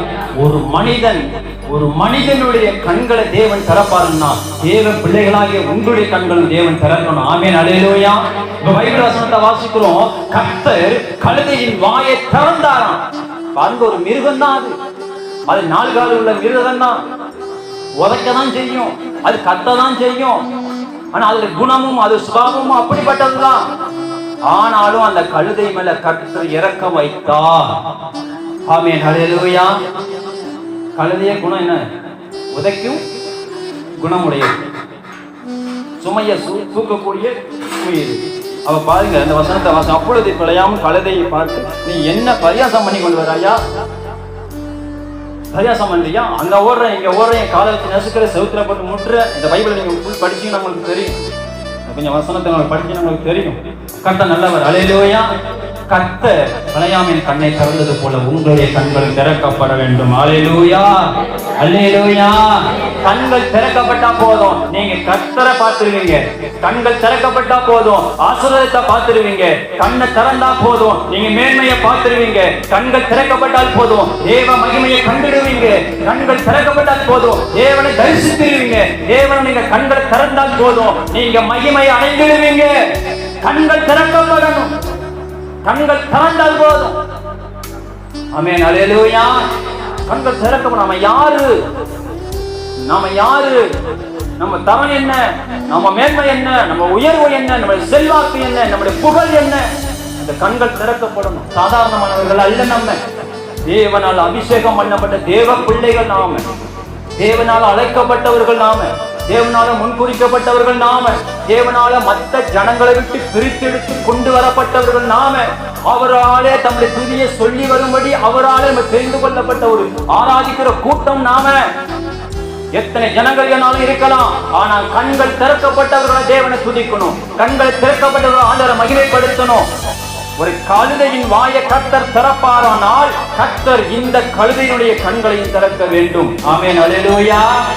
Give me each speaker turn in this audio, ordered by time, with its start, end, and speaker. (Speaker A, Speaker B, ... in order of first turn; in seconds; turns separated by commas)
Speaker A: 0.4-13.0, Speaker A: 13.5-14.7, Speaker A: 15.5-16.9, Speaker A: 18.0-20.4, Speaker A: 21.1-23.6, Speaker A: 24.5-27.7, Speaker A: 28.7-29.8, Speaker A: 30.9-31.8, Speaker A: 32.5-33.0, Speaker A: 34.0-34.5, Speaker A: 36.0-43.6, Speaker A: 45.5-51.1, Speaker A: 51.9-55.2, Speaker A: 55.9-82.7, Speaker A: 83.4-84.7, Speaker A: 85.6-86.9, Speaker A: 88.3-89.4, Speaker A: 90.0-91.5, Speaker A: 92.8-93.6, Speaker A: 94.4-99.6, Speaker A: 100.2-103.0, Speaker A: 103.7-106.4, Speaker A: 107.2-121.6, Speaker A: 122.7-129.7, Speaker A: 130.4-137.5